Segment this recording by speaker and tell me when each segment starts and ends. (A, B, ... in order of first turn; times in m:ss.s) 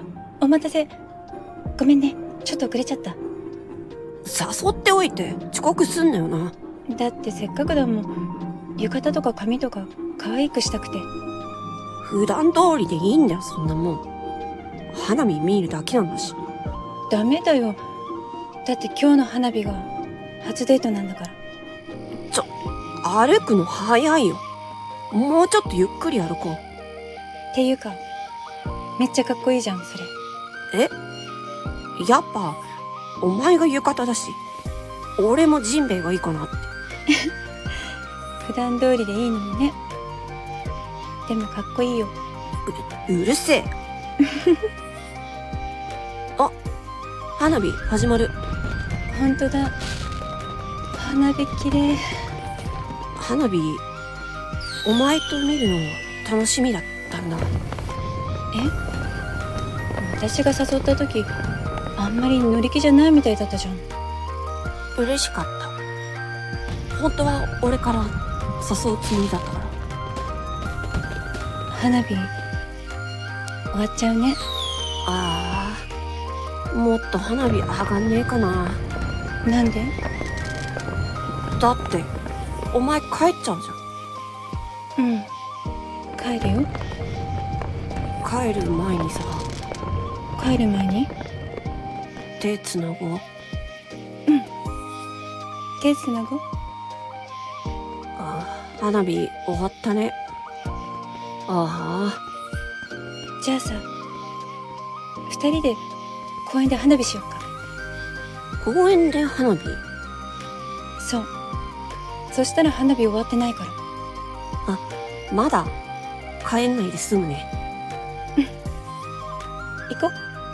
0:00.4-0:00.9 A
0:01.8-0:03.2 A
0:04.2-0:06.5 B
0:06.9-0:08.1 A
0:08.8-0:11.1 A
0:12.0-0:14.0 B
0:14.9-0:16.4 B
0:17.1-0:17.8 A
0:18.6-0:19.9 A
0:20.4-0:21.4 A
0:23.0-0:24.4 B
0:25.1-0:26.6 B
0:27.5-0:28.0 A
0:29.0-0:30.1 A
0:32.0-0:32.6 B
0:33.2-0:34.4 B
0:35.2-0:36.7 B
0:38.4-0:39.8 A
0:41.2-0:42.1 A
0:42.6-0:43.7 B
0:44.2-0:44.6 A
0:47.4-0:48.3 B
0:49.1-0:49.8 A
0:51.0-0:52.0 A
0:53.2-0:53.8 B
0:54.8-0:57.5 B
1:00.0-1:01.3 A
1:02.0-1:03.8 A
1:05.0-1:05.7 B
1:06.9-1:09.7 B
1:11.7-1:12.3 A
1:13.7-1:14.4 A
1:15.0-1:15.9 B
1:16.7-1:18.8 B
1:19.4-1:19.9 A
1:21.6-1:22.1 B
1:22.7-1:23.8 B
1:25.0-1:25.3 A
1:26.2-1:26.7 A
1:28.2-1:29.5 B
1:30.4-1:31.1 A
1:32.4-1:33.2 B
1:35.8-1:36.4 A
1:38.2-1:40.2 B
1:41.5-1:42.2 B
1:43.4-1:43.8 A
1:45.3-1:45.8 A
1:46.4-1:47.5 A
1:48.6-1:49.8 B
1:51.0-1:51.3 A
1:52.3-1:53.8 A
1:54.6-1:55.8 B
1:56.4-1:57.5 B
1:59.9-2:00.1 A